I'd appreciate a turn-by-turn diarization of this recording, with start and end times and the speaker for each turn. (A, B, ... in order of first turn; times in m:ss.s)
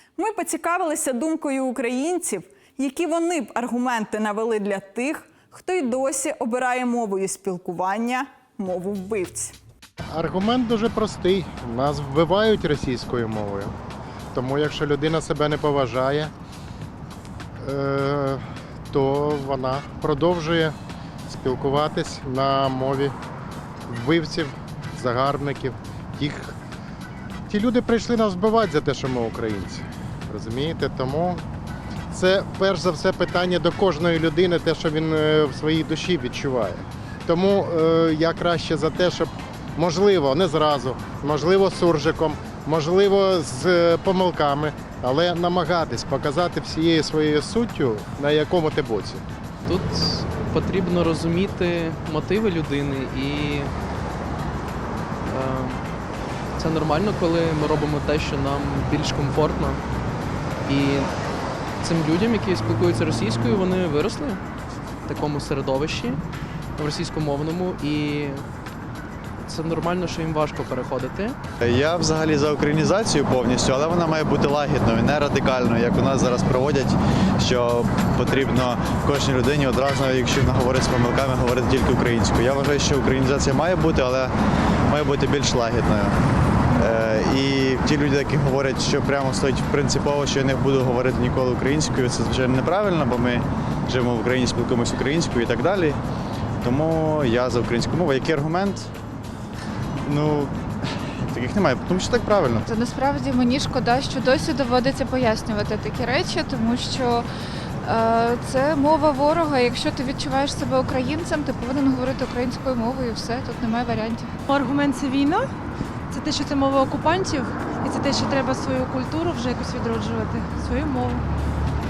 0:00.2-0:09.6 A
0:10.1-0:13.7 B
0:14.3-0:16.3 B
0:17.6-0:20.7 B
0:21.3-0:23.2 B
0:23.9-0:26.6 B
0:27.5-0:31.4 B
0:32.1-0:49.2 B
0:49.7-0:53.7 C
0:55.2-0:55.9 C
0:56.6-0:59.8 C
1:00.6-1:01.1 C
1:01.8-1:04.4 C
1:05.0-1:06.2 C
1:06.8-1:08.4 C
1:09.5-1:11.4 C
1:11.6-1:24.3 D
1:24.9-1:26.2 D
1:26.8-1:36.0 D
1:36.6-1:38.9 D
1:40.0-1:42.7 D
1:42.7-1:47.3 E
1:47.8-1:54.3 E
1:54.5-1:55.5 F
1:56.1-2:01.2 F